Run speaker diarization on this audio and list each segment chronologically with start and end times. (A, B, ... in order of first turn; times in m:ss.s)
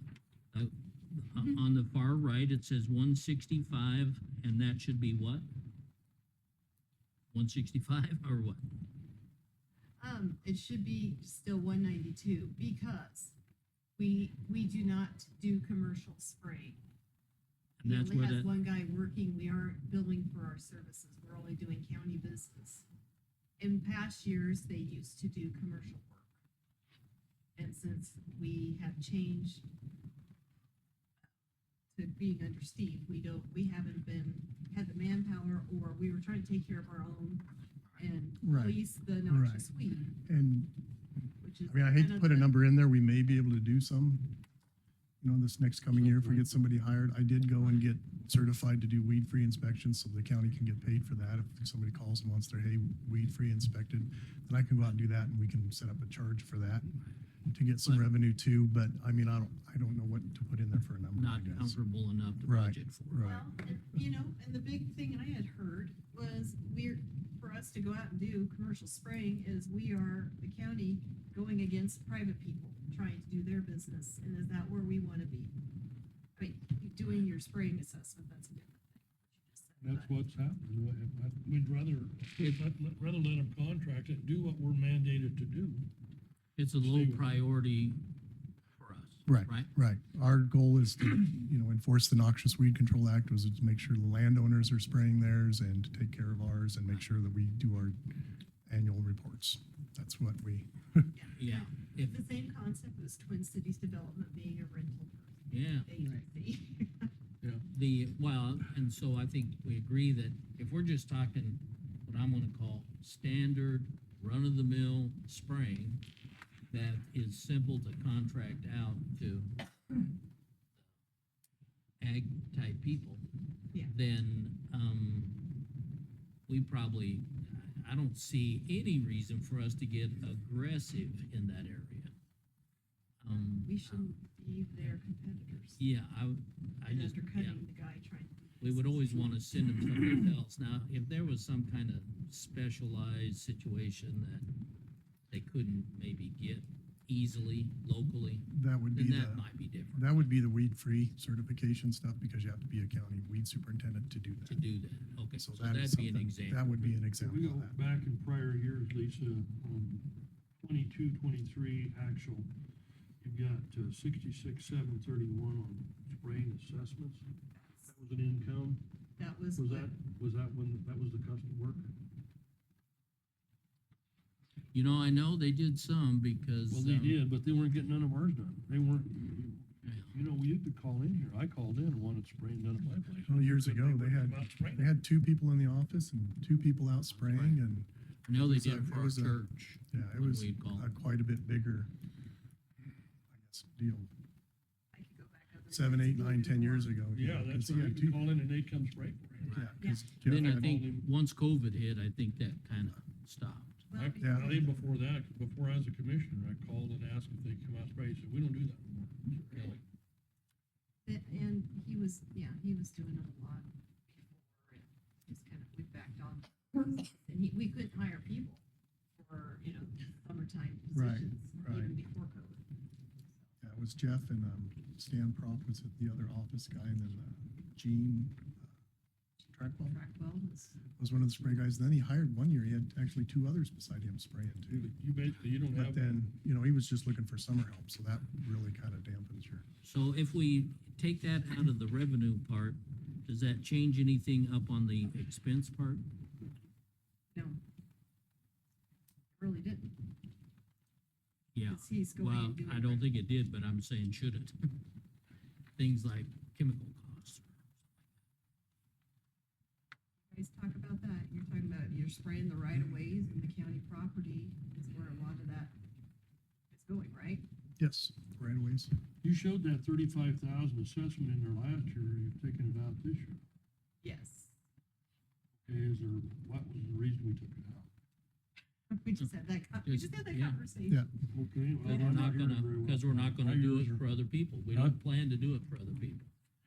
0:00.5-0:05.5 A
0:07.3-0:08.7 A
0:10.0-0:13.4 B
0:14.0-0:16.8 B
0:17.8-0:18.5 A
0:17.8-0:22.8 B
0:23.6-0:26.3 B
0:27.6-0:29.6 B
0:31.9-0:40.2 B
0:38.4-0:39.7 C
0:40.2-0:40.8 C
0:41.4-0:42.5 B
0:41.6-0:44.4 C
0:45.2-0:57.0 C
0:45.9-0:46.4 D
0:57.5-1:01.8 C
1:01.2-1:03.2 A
1:02.4-1:03.5 C
1:03.2-1:15.7 B
1:16.4-1:20.1 B
1:19.8-1:25.9 D
1:26.6-1:28.1 A
1:26.8-1:27.3 D
1:28.8-1:29.7 A
1:29.2-1:38.0 C
1:38.7-1:41.1 C
1:41.1-1:47.1 B
1:41.4-1:42.1 A
1:45.5-1:45.9 A
1:47.7-1:56.0 A
1:56.7-1:59.6 A
2:02.0-2:03.2 A
2:03.8-2:05.5 A
2:06.5-2:12.1 A
2:13.2-2:14.0 A
2:13.3-2:15.8 B
2:15.8-2:17.6 A
2:16.9-2:19.4 B
2:18.6-2:24.5 A
2:25.3-2:30.3 A
2:28.5-2:34.6 C
2:34.4-2:37.0 A
2:35.3-2:37.8 C
2:37.1-2:42.5 D
2:43.2-2:47.3 D
2:47.5-2:47.9 B
2:47.9-2:48.8 D
2:49.2-2:49.9 B
2:49.6-2:51.9 D
2:54.7-2:57.2 A
2:56.7-3:05.0 D
2:59.8-3:00.1 A
3:03.3-3:11.9 C
3:07.1-3:07.6 A
3:08.2-3:10.9 A
3:13.3-3:14.1 C
3:14.9-3:17.0 B
3:15.7-3:18.2 C
3:17.1-3:21.1 D
3:19.5-3:23.8 A
3:19.5-3:20.8 C
3:19.8-3:20.1 B
3:23.9-3:24.8 B
3:23.9-3:29.8 D
3:24.2-3:24.6 C
3:29.5-3:29.8 A
3:31.0-3:38.6 B
3:39.2-3:42.7 B
3:40.9-3:41.9 C
3:43.6-3:48.6 C
3:49.5-3:50.0 C
3:49.8-3:50.8 B
3:51.0-3:54.9 C
3:54.7-3:56.2 D
3:55.7-3:59.6 C
3:59.8-4:06.0 A
4:07.3-4:07.6 B
4:09.4-4:10.1 B
4:11.5-4:14.8 A
4:11.7-4:13.2 B
4:15.8-4:17.5 A
4:20.3-4:25.8 B
4:26.7-4:27.4 B
4:27.8-4:28.9 C
4:29.2-4:33.4 D
4:34.0-4:34.5 B
4:35.6-4:37.9 D
4:38.9-4:41.1 B
4:39.8-4:40.6 A
4:41.3-4:44.0 D
4:41.8-4:42.2 B
4:41.8-4:46.3 A
4:44.7-4:45.0 D